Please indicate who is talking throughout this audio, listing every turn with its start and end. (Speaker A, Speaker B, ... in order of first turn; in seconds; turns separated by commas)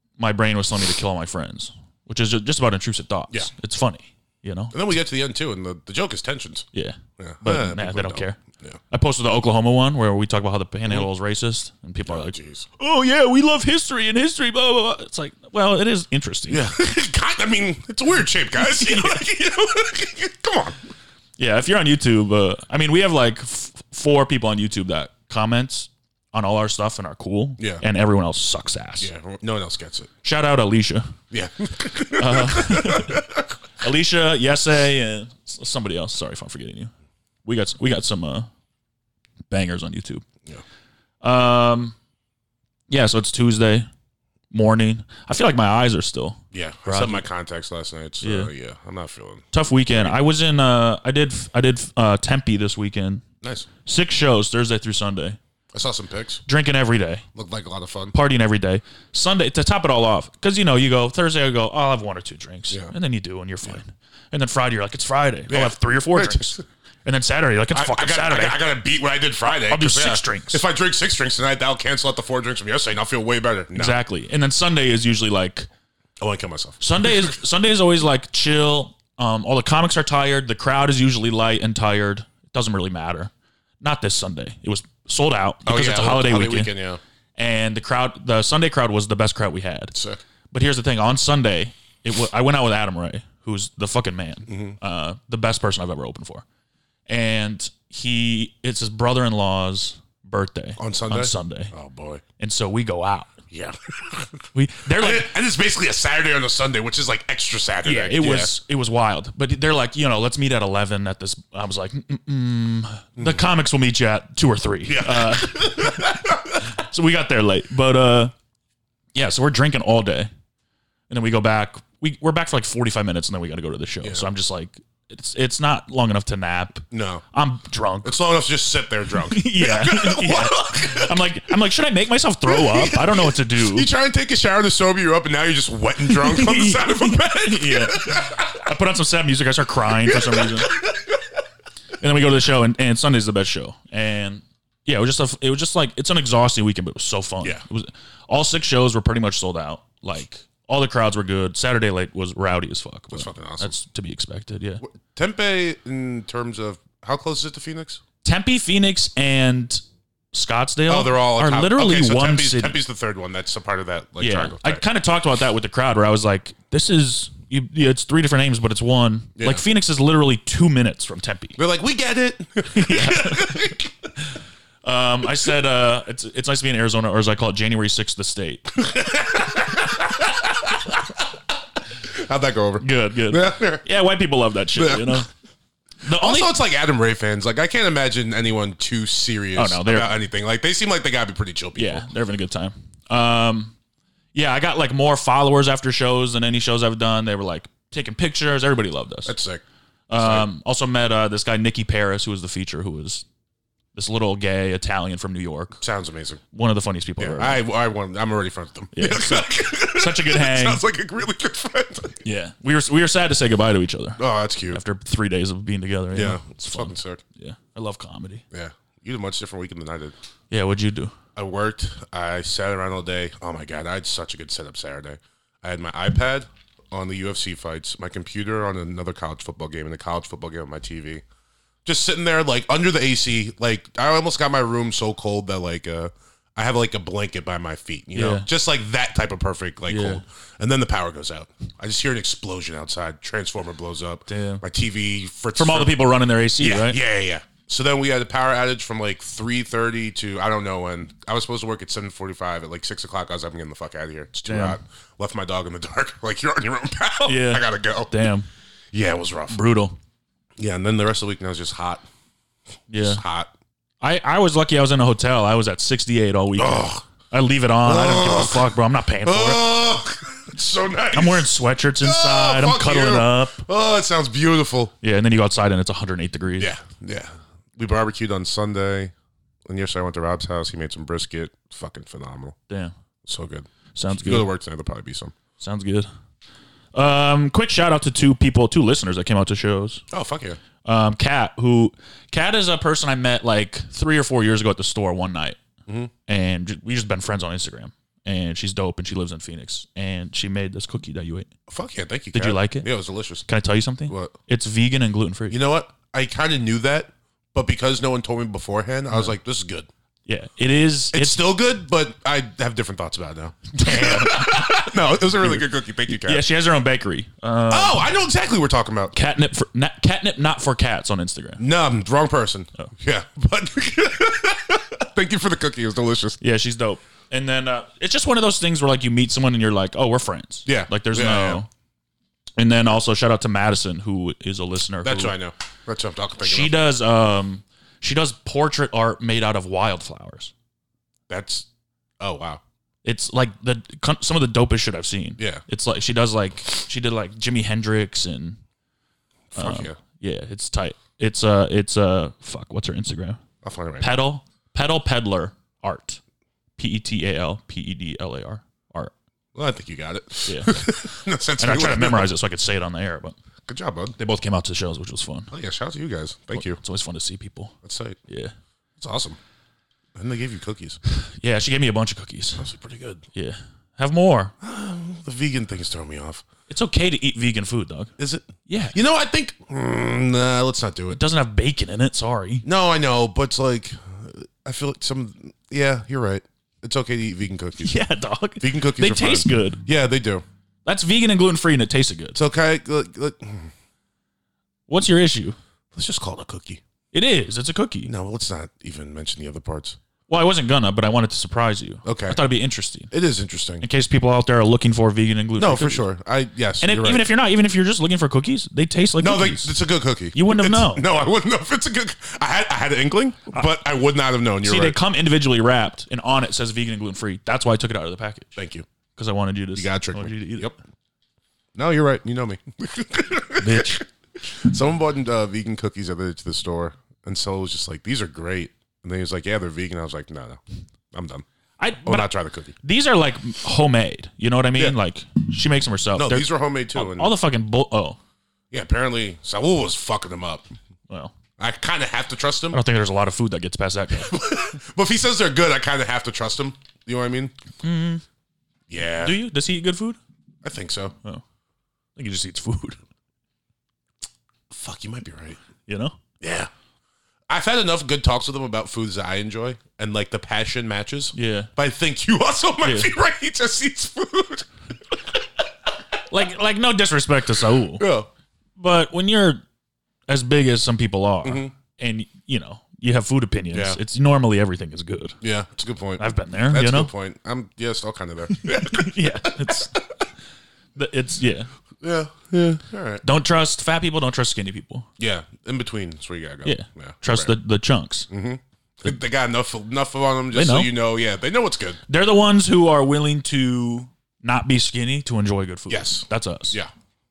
Speaker A: 0.2-4.7, Speaker B: 4.7-8.8, Speaker A: 6.7-8.4, Speaker A: 8.9-16.6, Speaker B: 12.0-12.7, Speaker B: 16.5-20.8, Speaker A: 18.7-19.2, Speaker A: 21.4-29.1, Speaker B: 27.6-27.8, Speaker B: 29.0-30.1, Speaker A: 30.2-31.1, Speaker B: 31.3-33.5, Speaker A: 32.1-33.2, Speaker A: 33.8-36.9, Speaker A: 37.4-38.5, Speaker A: 39.5-40.2, Speaker A: 41.2-41.9, Speaker A: 42.9-43.9, Speaker A: 44.5-47.2, Speaker B: 46.5-50.1, Speaker A: 48.2-48.5, Speaker A: 49.5-53.2, Speaker B: 53.4-53.7, Speaker A: 53.8-55.4, Speaker B: 55.7-56.4, Speaker A: 56.5-57.2, Speaker B: 57.3-58.1, Speaker A: 58.1-68.6, Speaker B: 65.5-66.6, Speaker B: 67.7-74.0, Speaker A: 69.6-70.6, Speaker A: 73.7-75.7, Speaker B: 76.2-77.3, Speaker A: 76.8-86.7, Speaker B: 85.7-87.0, Speaker A: 87.4-89.9, Speaker B: 89.9-90.2, Speaker A: 90.5-96.4, Speaker B: 94.5-94.8, Speaker A: 97.1-101.7, Speaker B: 100.8-102.2, Speaker A: 102.4-103.3, Speaker B: 103.5-108.6, Speaker A: 104.5-105.3, Speaker A: 107.8-118.3, Speaker B: 113.2-113.4, Speaker B: 114.8-116.6, Speaker A: 119.1-120.3, Speaker A: 121.1-128.2, Speaker B: 124.0-124.3, Speaker B: 126.9-127.2, Speaker B: 128.0-131.1, Speaker A: 129.3-133.9, Speaker B: 132.5-138.6, Speaker A: 136.1-140.8, Speaker B: 140.0-141.2, Speaker A: 142.0-154.8, Speaker B: 153.1-153.7, Speaker B: 154.8-158.0, Speaker A: 158.2-162.8, Speaker B: 160.9-164.8, Speaker A: 164.2-171.6, Speaker B: 169.3-169.6, Speaker B: 171.6-173.9, Speaker A: 172.7-174.2, Speaker A: 174.8-178.8, Speaker B: 178.8-181.1, Speaker B: 182.0-183.8, Speaker A: 182.8-185.3, Speaker B: 184.7-185.2, Speaker A: 186.0-186.5, Speaker B: 186.1-192.1, Speaker A: 189.5-190.1, Speaker A: 191.8-193.7, Speaker A: 194.3-199.3, Speaker B: 199.2-199.6, Speaker A: 200.1-203.2, Speaker B: 200.2-200.5, Speaker A: 203.9-205.8, Speaker B: 205.8-206.4, Speaker A: 206.5-207.6, Speaker B: 207.2-212.2, Speaker A: 208.9-210.8, Speaker A: 212.2-218.4, Speaker B: 214.2-214.8, Speaker B: 216.1-217.2, Speaker B: 218.5-220.1, Speaker A: 220.5-221.1, Speaker B: 221.3-231.2, Speaker B: 231.8-245.9, Speaker A: 238.1-238.5, Speaker A: 239.9-240.2, Speaker A: 244.3-244.6, Speaker A: 245.5-247.0, Speaker B: 246.6-258.1, Speaker A: 254.5-254.8, Speaker A: 257.2-258.5, Speaker B: 258.9-259.6, Speaker A: 259.5-259.9, Speaker B: 260.6-262.0, Speaker A: 262.9-263.2, Speaker B: 263.0-263.5, Speaker A: 264.0-269.7, Speaker B: 266.6-267.0, Speaker B: 267.8-268.7, Speaker B: 269.2-271.5, Speaker A: 271.1-273.7, Speaker B: 272.0-274.9, Speaker A: 275.0-276.7, Speaker B: 276.6-279.1, Speaker B: 279.6-282.6, Speaker B: 283.2-285.3, Speaker A: 283.9-284.5, Speaker A: 285.6-286.1, Speaker A: 286.9-290.0, Speaker B: 290.1-290.6, Speaker A: 290.8-295.6, Speaker A: 296.3-301.5, Speaker B: 301.7-303.4, Speaker A: 302.3-302.9, Speaker A: 303.4-305.6, Speaker B: 304.1-304.3, Speaker B: 305.5-309.9, Speaker A: 310.2-311.4, Speaker B: 311.1-316.4, Speaker A: 313.7-318.1, Speaker B: 317.7-319.1, Speaker A: 319.1-321.6, Speaker B: 321.6-326.4, Speaker A: 326.4-331.7, Speaker B: 330.6-331.6, Speaker A: 332.6-335.3, Speaker B: 335.0-336.8, Speaker A: 336.4-340.5, Speaker B: 341.3-341.7, Speaker B: 342.2-342.6, Speaker A: 343.0-348.6, Speaker B: 345.4-345.6, Speaker B: 349.5-350.0, Speaker A: 349.6-353.4, Speaker B: 353.6-354.2, Speaker A: 354.0-356.2, Speaker A: 356.8-359.1, Speaker B: 359.5-362.3, Speaker A: 360.4-363.4, Speaker B: 363.6-364.1, Speaker A: 364.2-365.5, Speaker B: 365.5-366.8, Speaker A: 366.5-367.7, Speaker B: 367.8-368.2, Speaker A: 368.3-368.5, Speaker B: 369.0-369.4, Speaker B: 370.1-371.0, Speaker A: 371.1-372.6, Speaker B: 372.6-373.2, Speaker A: 373.3-374.5, Speaker B: 374.6-376.4, Speaker A: 376.7-378.1, Speaker B: 378.2-381.2, Speaker A: 378.7-378.9, Speaker A: 381.1-382.6, Speaker B: 382.6-387.9, Speaker A: 387.8-389.8, Speaker B: 388.6-390.4, Speaker A: 390.9-392.4, Speaker B: 392.3-393.7, Speaker A: 394.9-395.6, Speaker B: 395.9-396.8, Speaker A: 397.1-398.1, Speaker B: 398.0-400.0, Speaker A: 400.3-403.1, Speaker B: 402.0-402.4, Speaker B: 403.1-403.9, Speaker A: 403.8-406.0, Speaker B: 405.6-407.2, Speaker A: 406.8-409.7, Speaker B: 409.2-414.9, Speaker A: 410.3-411.0, Speaker A: 414.6-418.5, Speaker B: 418.6-418.9, Speaker A: 419.1-420.7, Speaker B: 419.8-420.8, Speaker B: 421.7-430.6, Speaker A: 423.6-424.0, Speaker B: 431.1-431.4, Speaker A: 431.8-432.3, Speaker B: 432.0-432.7, Speaker A: 432.8-438.2, Speaker B: 436.1-437.3, Speaker B: 438.7-440.6, Speaker A: 441.1-441.3, Speaker B: 441.6-442.8, Speaker A: 442.7-444.5, Speaker B: 444.1-447.5, Speaker A: 447.8-448.2, Speaker B: 448.9-449.4, Speaker A: 449.2-450.2, Speaker B: 450.6-451.1, Speaker A: 452.1-453.0, Speaker B: 454.7-455.6, Speaker A: 455.9-456.1, Speaker B: 456.4-456.7, Speaker B: 457.5-464.7, Speaker A: 461.3-461.7, Speaker A: 462.8-463.1, Speaker A: 466.3-468.1, Speaker B: 468.0-468.3, Speaker A: 468.8-469.6, Speaker A: 470.3-475.4, Speaker B: 471.4-471.7, Speaker B: 473.7-474.0, Speaker B: 475.4-479.9, Speaker A: 476.2-477.1, Speaker A: 478.5-480.0, Speaker A: 480.9-481.7, Speaker B: 482.0-483.2, Speaker A: 483.2-485.1, Speaker B: 485.2-487.5, Speaker A: 486.6-488.3, Speaker B: 488.3-492.0, Speaker A: 490.5-490.9, Speaker A: 492.1-496.8, Speaker B: 495.9-496.9